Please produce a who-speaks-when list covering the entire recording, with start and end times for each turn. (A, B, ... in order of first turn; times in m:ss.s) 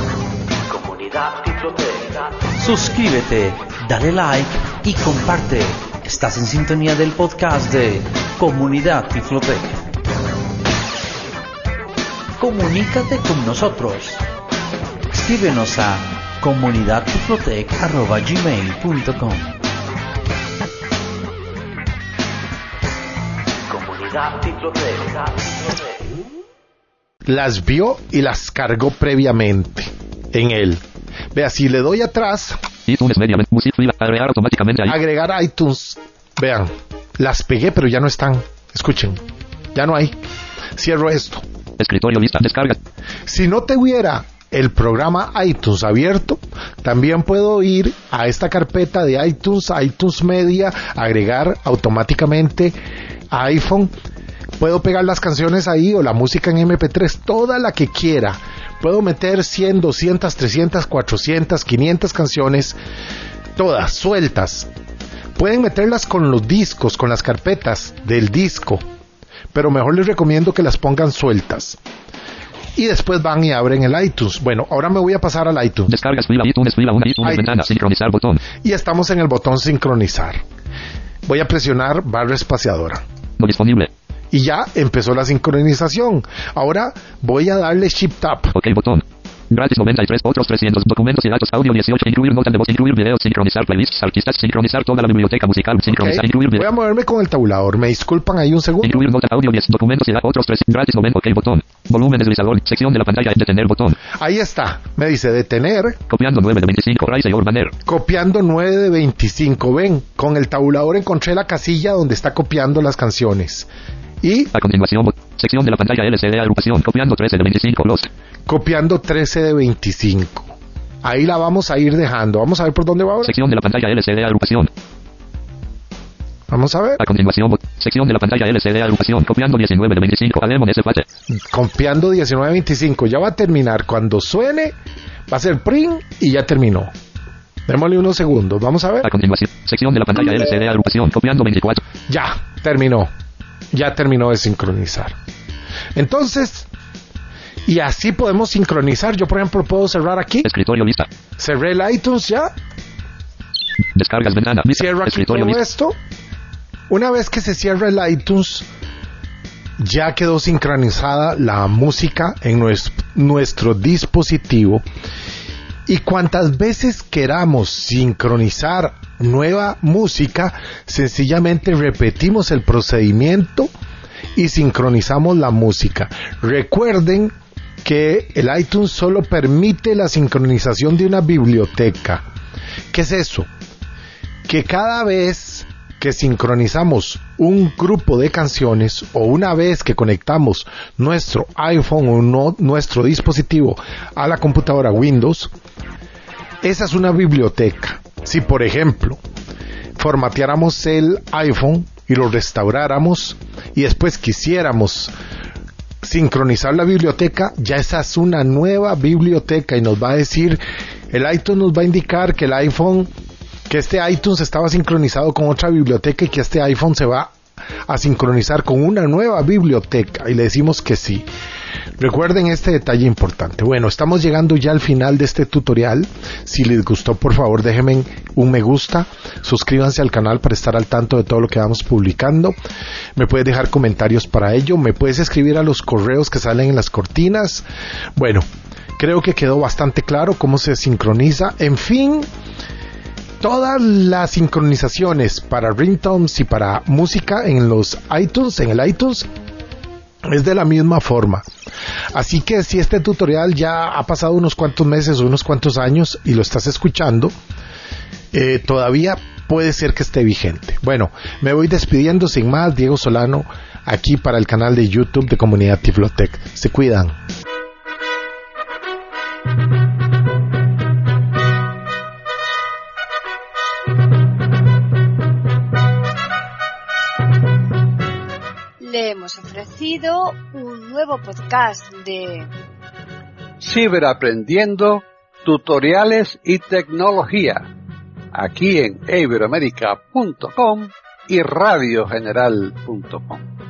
0:00.6-0:09.8 A
0:12.4-0:14.3 A
0:15.1-0:19.6 A
0:23.7-0:25.7 A
0:27.3-0:30.8 B
0:31.3-0:32.6 B
0:32.9-0:35.0 C
0:34.9-0:39.2 B
0:39.7-0:40.2 B
0:40.8-0:41.4 B
0:41.8-0:42.8 C
0:43.3-0:52.8 B
0:53.3-0:53.9 B
0:54.6-1:02.8 B
1:03.6-1:04.7 B
1:05.4-1:08.8 B
1:09.5-1:11.8 B
1:12.8-1:16.0 B
1:15.9-1:18.4 C
1:17.2-1:17.6 B
1:18.6-1:20.4 B
1:21.3-1:23.0 B
1:23.4-1:23.9 C
1:24.3-1:28.6 B
1:28.6-1:36.7 C
1:35.9-1:39.0 B
1:38.8-1:44.0 C
1:44.2-1:46.0 B
1:46.1-1:47.7 C
1:47.8-1:53.7 B
1:54.2-1:54.6 B
1:54.5-1:58.1 C
1:58.5-2:03.4 B
2:03.2-2:04.7 C
2:06.5-2:07.0 B
2:07.0-2:11.1 C
2:11.4-2:14.8 B
2:15.3-2:16.9 B
2:17.7-2:19.1 B
2:19.0-2:21.8 C
2:22.1-2:23.1 B
2:23.7-2:25.1 B
2:26.0-2:26.7 B
2:27.7-2:30.5 B
2:30.4-2:31.1 C
2:31.4-2:32.5 B
2:34.0-2:35.6 C
2:34.7-2:36.0 B
2:36.9-2:38.7 B
2:39.8-2:44.8 B
2:45.9-2:53.7 B
2:54.4-2:57.3 B
2:57.8-3:02.2 B
3:02.9-3:03.5 B
3:04.5-3:15.5 B
3:16.6-3:19.2 B
3:20.0-3:25.1 B
3:26.0-3:33.1 B
3:33.7-3:37.3 B
3:37.9-3:41.3 B
3:42.0-3:52.6 B
3:53.2-3:57.7 B
3:58.2-3:58.5 B
3:59.0-4:02.3 B
4:03.4-4:09.3 B
4:10.3-4:11.5 B
4:12.1-4:17.3 B
4:18.3-4:27.2 B
4:38.8-4:42.5 D
4:43.6-4:47.7 E
4:48.3-4:53.4 E